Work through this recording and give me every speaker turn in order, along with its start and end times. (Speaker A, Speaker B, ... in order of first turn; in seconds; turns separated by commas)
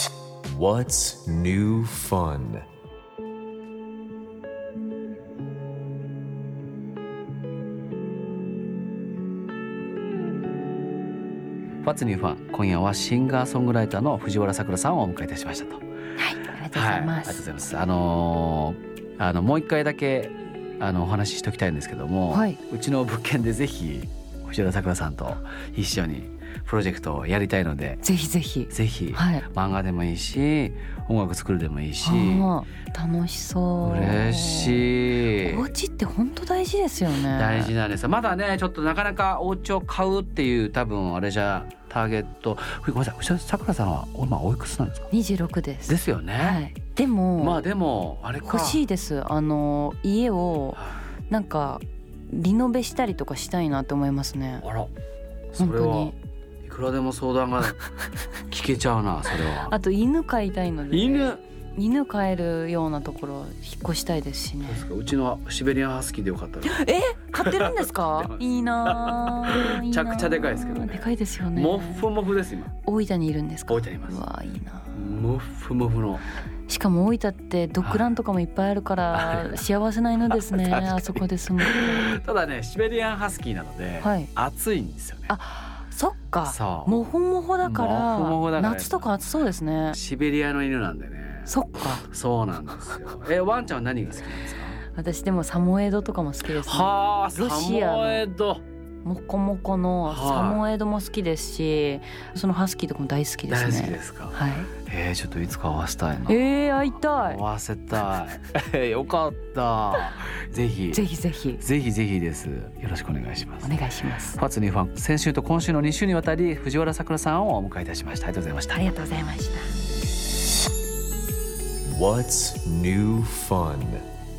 Speaker A: 0.4-2.6, Speaker B: 11.8-15.8, Speaker C: 16.2-17.4, Speaker B: 16.7-28.0, Speaker C: 22.3-22.6, Speaker C: 28.0-29.4, Speaker B: 28.7-32.5, Speaker C: 32.0-37.7, Speaker B: 33.8-35.7, Speaker B: 37.3-45.1, Speaker C: 45.1-47.6, Speaker B: 45.9-46.6, Speaker B: 47.4-48.8, Speaker C: 48.4-54.6, Speaker B: 54.6-54.9, Speaker B: 55.5-57.8, Speaker C: 55.6-56.1, Speaker B: 58.5-59.7, Speaker C: 59.6-64.9, Speaker B: 60.9-61.4, Speaker B: 64.6-72.7, Speaker C: 66.6-72.0, Speaker C: 72.8-75.0, Speaker B: 73.7-74.2, Speaker B: 74.9-76.2, Speaker C: 76.7-82.1, Speaker B: 77.8-78.1, Speaker B: 79.1-79.6, Speaker B: 80.3-85.3, Speaker C: 84.0-84.3, Speaker C: 85.3-90.0, Speaker B: 86.5-87.0, Speaker B: 87.6-89.0, Speaker B: 89.9-91.5, Speaker C: 91.5-92.0, Speaker B: 92.0-94.8, Speaker C: 94.9-98.2, Speaker B: 96.5-98.6, Speaker C: 99.0-104.7, Speaker B: 100.1-100.6, Speaker B: 103.5-104.3, Speaker B: 104.8-106.3, Speaker C: 106.3-107.4, Speaker B: 107.2-111.0, Speaker C: 110.9-111.6, Speaker B: 111.6-113.8, Speaker C: 113.6-114.4, Speaker B: 114.3-118.8, Speaker C: 118.7-119.7, Speaker A: 121.8-124.0